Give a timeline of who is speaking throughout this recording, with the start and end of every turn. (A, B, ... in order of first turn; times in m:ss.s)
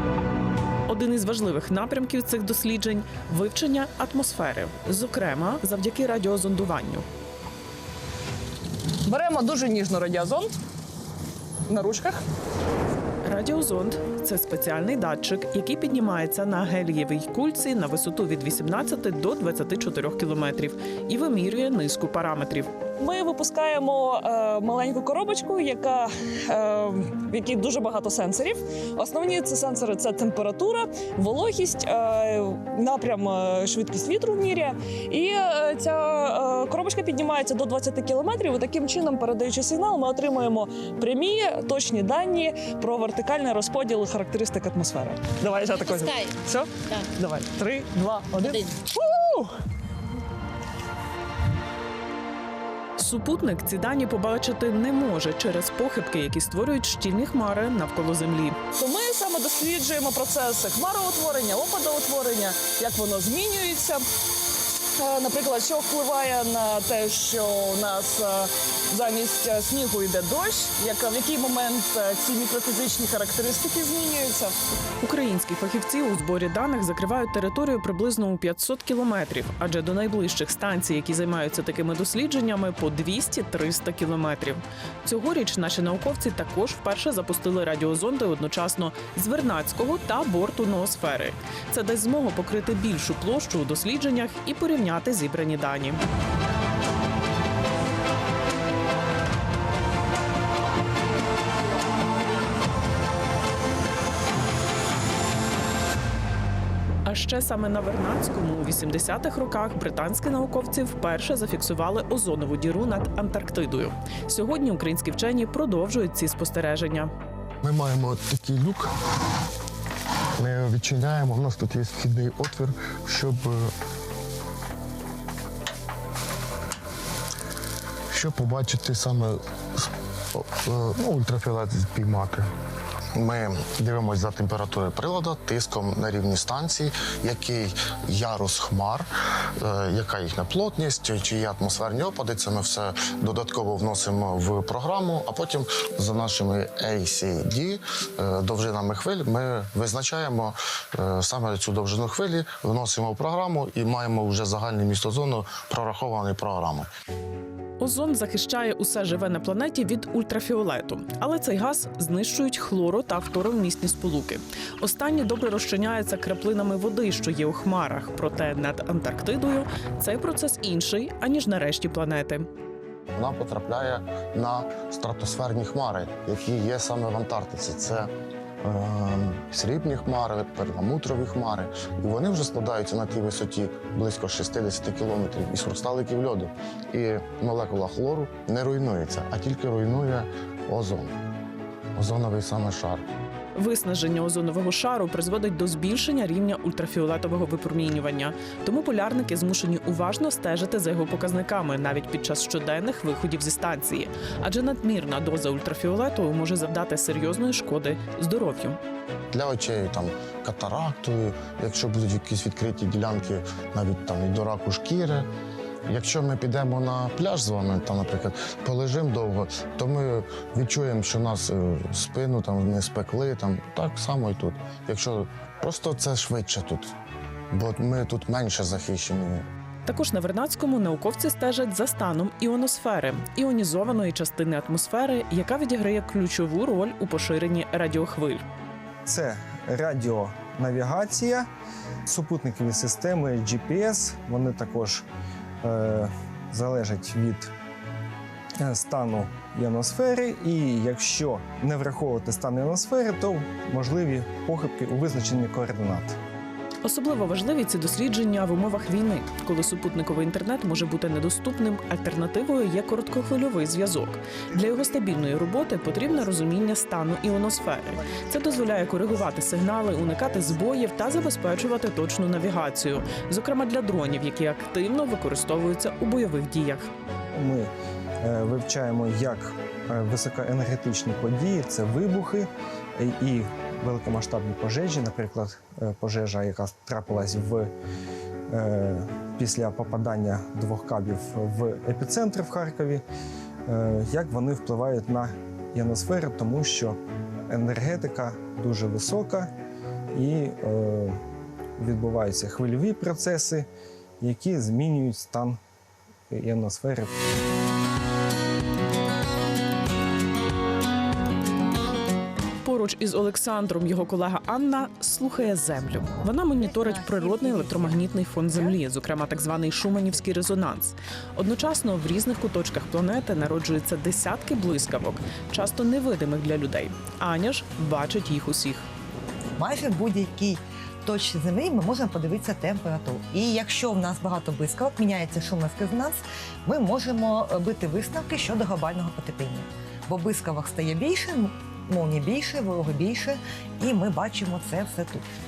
0:00.9-0:07.0 A
0:09.0-0:10.5 B
0:11.7-0:12.2 B
0:13.2-0:22.7 A
0:23.0-0:49.5 B
0:53.0-0:58.6 A
0:58.8-1:04.0 B
1:05.0-1:14.5 B
1:15.0-1:36.0 A
1:47.0-1:57.1 A
1:57.6-1:58.9 C
2:00.4-2:03.7 C
2:08.1-2:12.5 C
2:13.2-2:19.0 C
2:19.6-2:36.9 C
2:37.8-2:52.5 A
2:53.2-2:58.1 C
2:58.6-3:11.1 C
3:12.0-3:13.1 C
3:13.6-3:28.8 A
3:29.3-3:35.3 C
3:35.9-3:46.9 C
3:47.5-3:49.4 C
3:49.9-3:58.4 A
3:59.1-4:01.5 D
4:02.1-4:05.0 D
4:05.6-4:07.5 D
4:08.6-4:16.2 D
4:16.8-4:36.9 A
4:37.3-4:37.7 D
4:38.2-4:47.7 D
4:48.5-4:53.0 D
4:53.7-4:57.0 D
4:57.5-4:59.5 D
5:00.1-5:01.2 D
5:01.8-5:03.7 D
5:04.2-5:05.6 D
5:06.3-5:07.1 D
5:12.6-5:28.9 A
5:16.6-5:18.8 E
5:29.6-5:45.2 E